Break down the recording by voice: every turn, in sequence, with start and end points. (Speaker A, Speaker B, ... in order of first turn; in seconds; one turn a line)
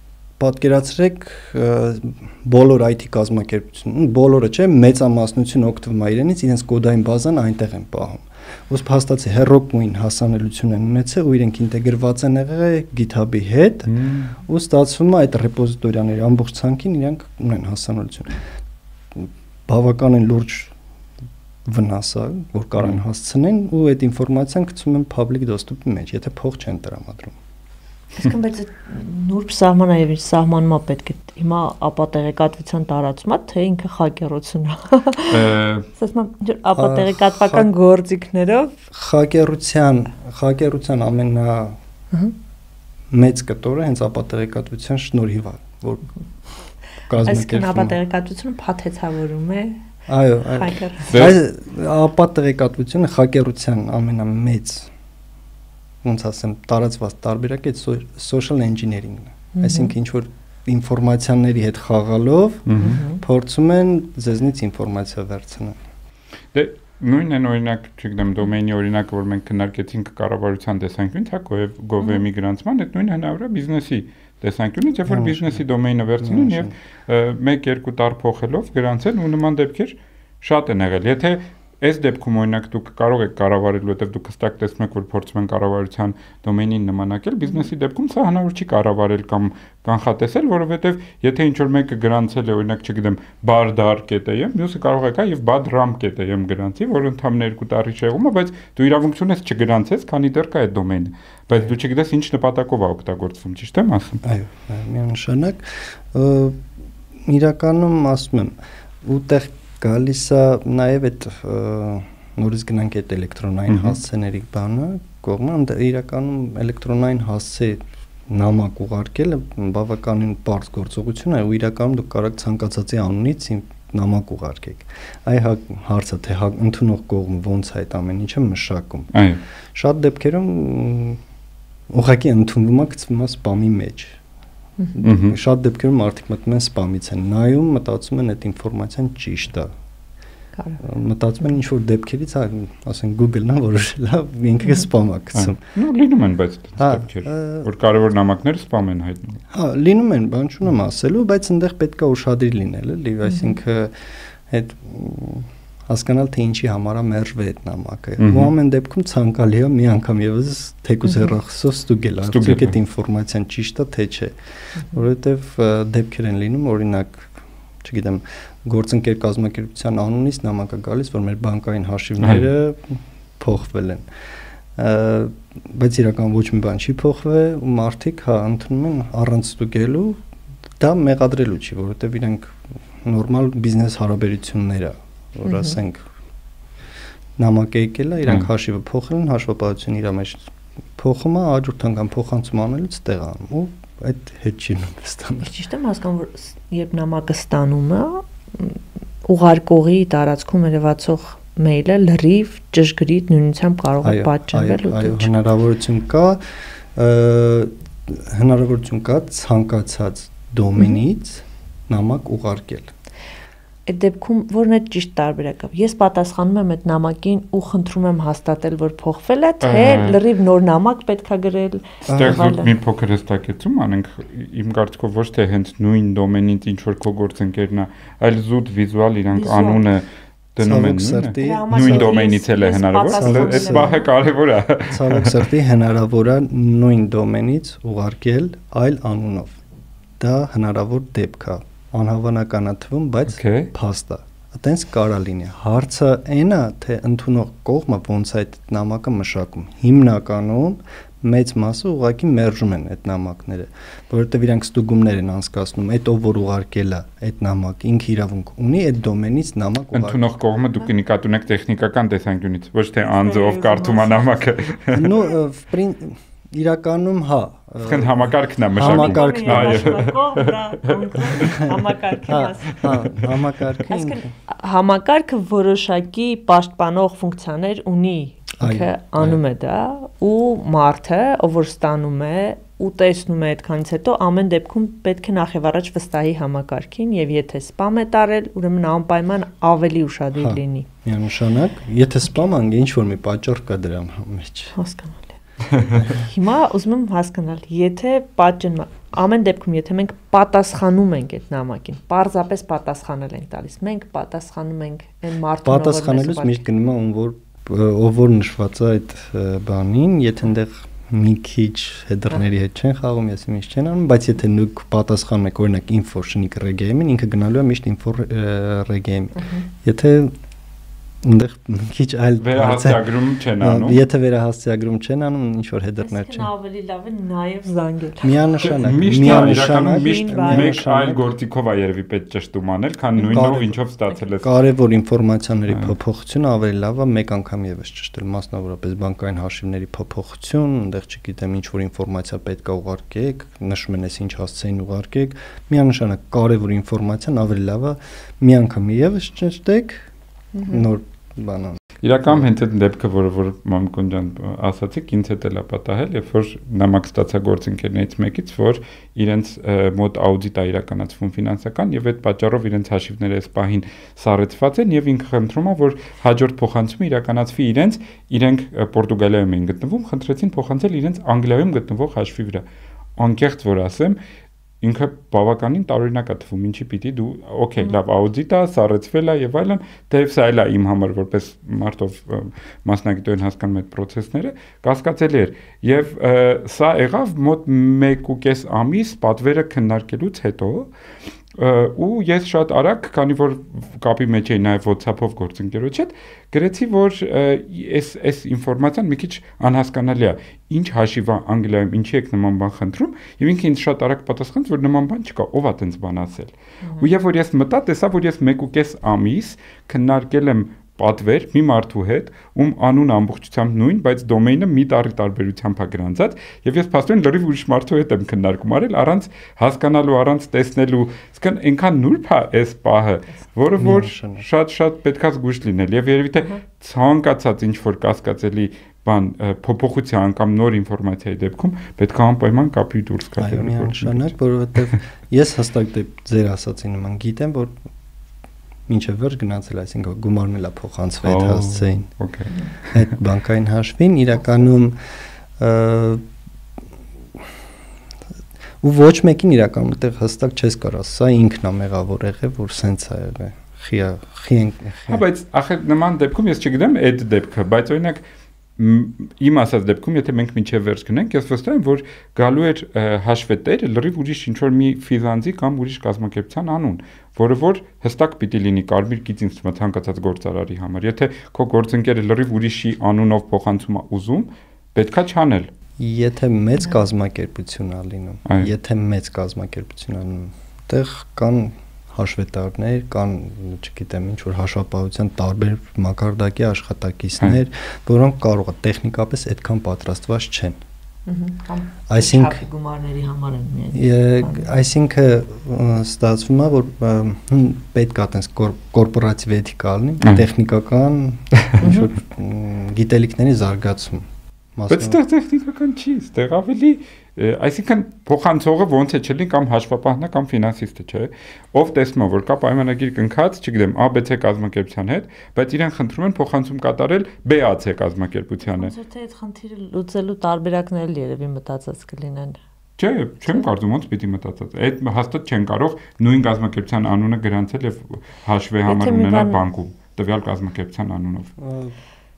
Speaker A: 0.4-18.5
Speaker B: 13.9-14.3
Speaker A: 19.1-20.7
Speaker A: 21.6-27.4
Speaker C: 28.2-38.8
Speaker B: 35.3-35.9
Speaker A: 36.8-37.7
Speaker A: 38.9-41.8
Speaker A: 43.1-46.1
Speaker A: 47.1-48.0
Speaker C: 47.2-49.8
Speaker A: 50.1-54.9
Speaker C: 50.5-51.1
Speaker B: 51.1-51.4
Speaker A: 56.0-65.8
Speaker C: 59.5-59.9
Speaker B: 62.7-63.0
Speaker C: 62.8-63.2
Speaker B: 66.5-104.2
Speaker A: 75.0-75.6
Speaker A: 76.2-76.7
Speaker A: 104.2-106.7
Speaker A: 107.2-129.2
Speaker B: 113.7-114.0
Speaker B: 129.1-129.4
Speaker A: 129.7-131.2
Speaker A: 131.9-134.2
Speaker A: 134.9-139.7
Speaker B: 135.0-135.4
Speaker C: 140.6-140.8
Speaker A: 140.8-145.6
Speaker B: 145.3-149.4
Speaker A: 146.8-147.7
Speaker A: 149.5-174.1
Speaker B: 158.2-158.5
Speaker B: 162.2-162.7
Speaker B: 172.2-172.4
Speaker A: 174.7-180.2
Speaker A: 180.8-186.0
Speaker C: 185.4-185.8
Speaker A: 187.4-195.5
Speaker C: 195.4-205.3
Speaker A: 204.0-212.9
Speaker C: 213.9-222.7
Speaker B: 219.6-220.2
Speaker A: 222.1-222.4
Speaker B: 222.1-235.5
Speaker C: 229.3-229.8
Speaker A: 230.6-232.1
Speaker C: 231.4-234.1
Speaker A: 233.1-233.9
Speaker A: 234.9-239.6
Speaker A: 240.2-260.2
Speaker B: 243.4-243.7
Speaker B: 259.9-265.1
Speaker C: 263.0-264.5
Speaker A: 264.9-270.0
Speaker B: 267.8-271.5
Speaker C: 268.8-272.9
Speaker A: 272.3-274.2
Speaker C: 273.9-290.9
Speaker A: 278.6-278.9
Speaker A: 290.3-294.7
Speaker C: 294.7-295.4
Speaker C: 295.9-306.6
Speaker A: 295.9-296.2
Speaker A: 305.6-320.3
Speaker C: 319.3-319.7
Speaker A: 321.2-323.1
Speaker B: 322.4-324.0
Speaker A: 323.6-326.5
Speaker C: 326.0-328.4
Speaker A: 328.2-331.2
Speaker B: 328.7-334.5
Speaker C: 329.2-330.8
Speaker A: 333.3-333.8
Speaker A: 334.4-350.1
Speaker C: 350.6-350.8
Speaker A: 350.6-352.5
Speaker B: 352.0-372.6
Speaker B: 373.2-374.2
Speaker B: 374.8-390.9
Speaker B: 391.6-434.3
Speaker A: 423.8-424.4
Speaker A: 433.4-437.8
Speaker A: 438.9-442.1
Speaker B: 441.2-443.1
Speaker A: 442.9-446.2
Speaker A: 448.8-455.2
Speaker B: 455.1-458.2
Speaker B: 458.8-475.7
Speaker A: 476.0-490.8
Speaker C: 491.2-494.7
Speaker A: 492.1-492.6
Speaker A: 493.9-505.2
Speaker C: 501.8-502.1
Speaker B: 504.9-518.9
Speaker C: 518.6-522.6
Speaker B: 523.0-531.5
Speaker C: 528.9-529.6
Speaker A: 531.6-532.0